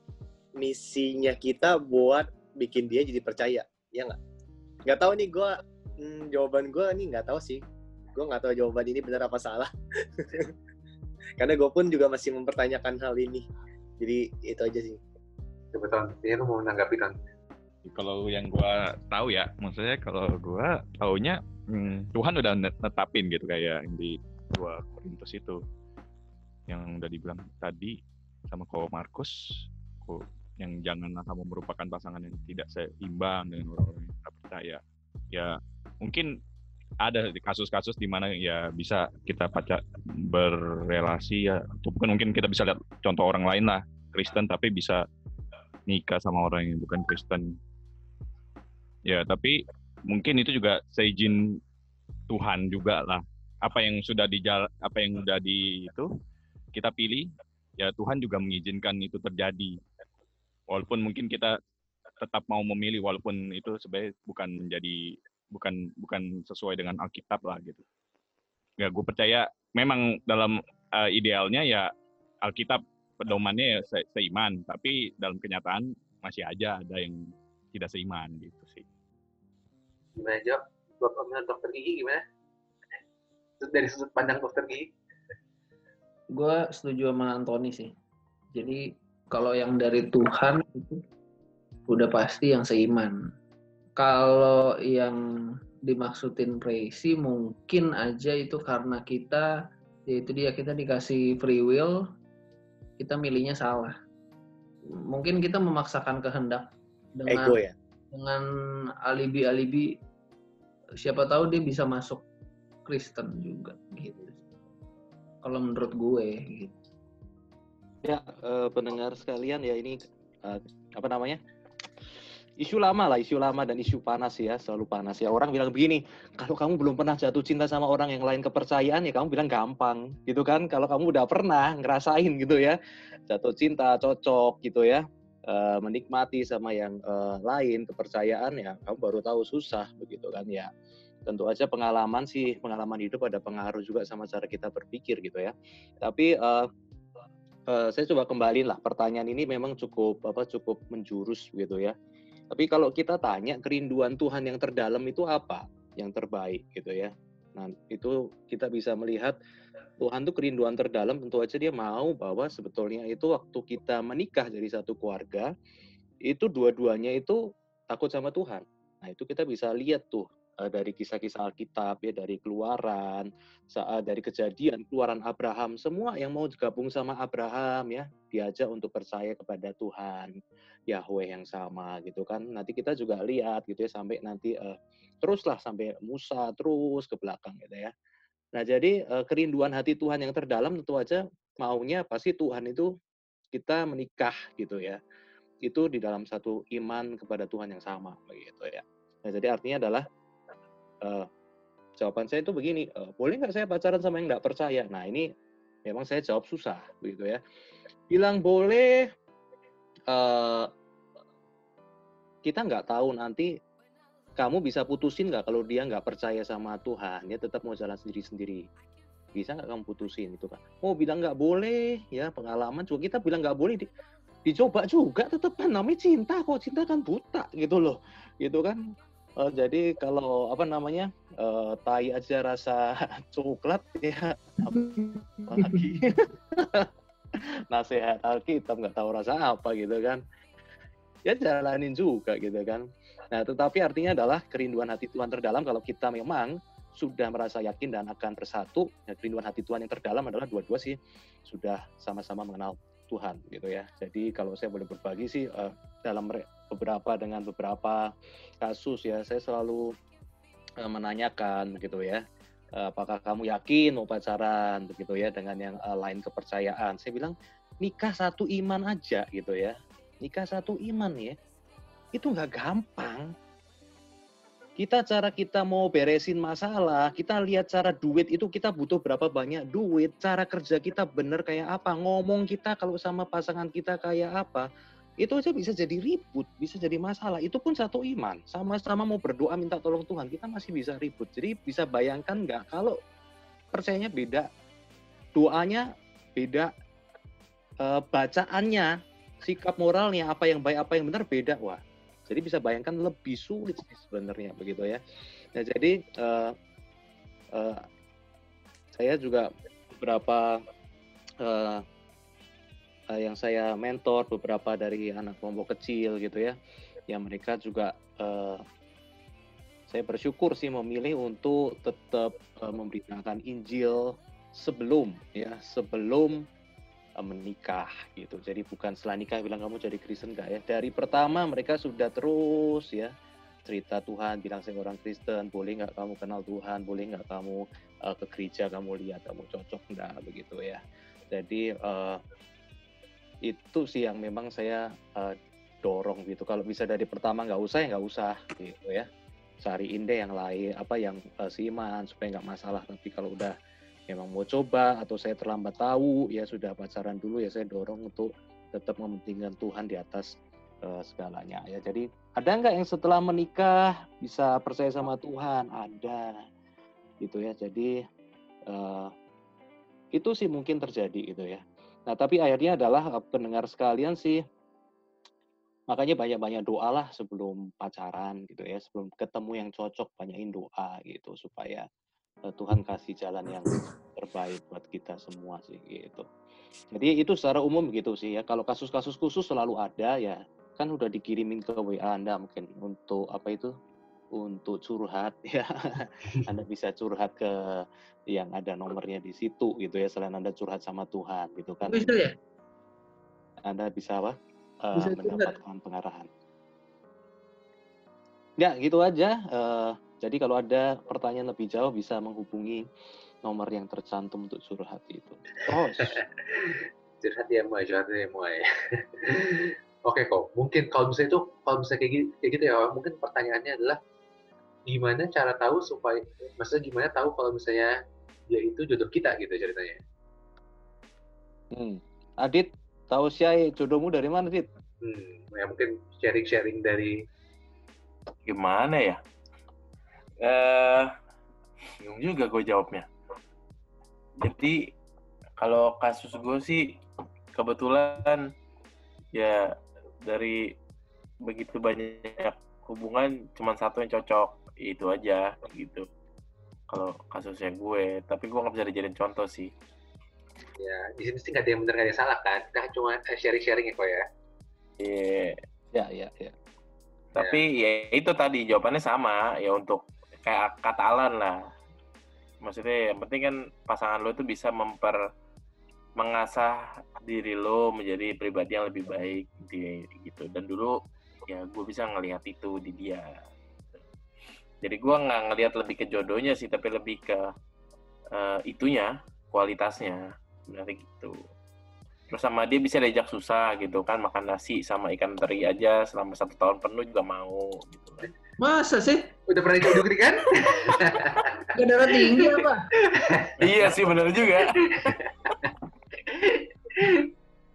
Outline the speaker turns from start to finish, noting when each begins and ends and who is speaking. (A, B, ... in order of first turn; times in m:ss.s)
0:00.6-0:04.2 A
0:04.8-0:07.6 A
0:08.1-0:10.5 A
0:11.4-0:13.4 A
0:14.0-0:15.0 A
0:15.7-0:17.1 B
0:17.8-0:25.6 C
0:26.7-0:28.0 C
0:28.5-0:34.8 C
0:35.3-0:36.3 C
0:37.0-0:45.0 C
0:45.9-0:47.6 C
0:49.1-0:51.6 C
0:52.3-0:56.1 C
0:56.7-0:59.8 C
1:00.7-1:01.6 C
1:02.2-1:07.8 C
1:08.8-1:11.9 C
1:12.4-1:17.2 C
1:17.7-1:18.8 C
1:20.2-1:22.2 B
1:23.6-1:24.9 B
1:26.3-1:27.9 D
1:28.5-1:31.0 D
1:31.9-1:33.3 D
1:34.0-1:39.5 D
1:40.1-1:42.0 D
1:43.0-1:43.9 D
1:44.9-1:47.6 D
1:47.3-1:47.7 A
1:48.1-1:48.4 D
1:49.0-1:50.0 D
1:51.0-1:52.2 D
1:52.9-1:54.4 D
1:55.4-1:56.7 D
1:58.0-2:01.4 E
2:02.6-2:12.8 E
2:13.3-2:20.7 E
2:21.2-2:26.7 E
2:27.7-2:31.9 E
2:32.5-2:39.4 E
2:40.0-2:45.5 E
2:46.2-3:00.3 E
3:00.9-3:07.9 E
3:08.6-3:12.9 E
3:13.5-3:15.0 E
3:15.6-3:20.0 E
3:21.0-3:21.3 E
3:22.0-3:25.3 E
3:25.8-3:27.4 E
3:28.1-3:29.1 E
3:30.1-3:30.7 E
3:32.4-3:33.5 E
3:34.4-3:38.6 E
3:39.3-3:43.9 E
3:44.4-3:48.8 E
3:49.4-4:00.2 E
3:55.5-3:55.8 D
4:01.2-4:19.9 E
4:20.8-4:22.2 E
4:22.7-4:31.4 E
4:32.1-4:33.3 E
4:34.8-4:44.7 E
4:45.2-4:53.0 E
4:53.7-4:54.5 E
4:55.3-4:56.7 E
4:57.8-5:05.0 E
5:05.5-5:06.6 E
5:07.5-5:07.8 E
5:08.9-5:10.6 E
5:11.4-5:11.8 E
5:13.1-5:16.6 E
5:17.1-5:18.6 E
5:19.9-5:26.4 E
5:27.2-5:33.1 E
5:33.6-5:40.8 E
5:41.3-5:42.2 E
5:43.4-5:49.1 E
5:49.6-5:53.5 E
5:54.1-6:06.3 E
6:07.2-6:07.9 E
6:08.7-6:09.1 E
6:10.2-6:14.4 E
6:15.9-6:21.8 E
6:22.5-6:26.3 E
6:26.9-6:33.7 E
6:34.3-6:42.1 E
6:41.9-6:42.3 D
6:43.6-6:46.3 E
6:45.0-6:45.5 D
6:48.6-6:52.8 E
6:53.4-6:56.2 E
6:56.0-7:04.0 B
7:04.9-7:07.9 B
7:08.5-7:10.0 B
7:11.7-7:14.7 E
7:15.0-7:17.2 B
7:18.5-7:19.2 F
7:20.4-7:21.1 F
7:22.0-7:23.0 F
7:24.4-7:24.9 F
7:25.6-7:26.9 F
7:27.5-7:28.5 F
7:29.3-7:29.7 F
7:30.2-7:30.7 F
7:31.4-7:36.0 F
7:36.9-7:39.7 F
7:40.8-7:44.2 B
7:45.0-7:45.6 F
7:45.9-7:46.5 E
7:47.3-7:51.7 F
7:47.4-7:47.6 B
7:52.6-7:55.2 F
7:56.2-8:03.3 F
8:04.8-8:07.5 F
8:08.3-8:11.4 F
8:12.3-8:18.3 F
8:18.6-8:19.3 D
8:19.5-8:21.7 B
8:20.8-8:21.2 F
8:21.7-8:22.8 D
8:22.4-8:23.9 B
8:23.6-8:25.2 F
8:24.9-8:27.3 B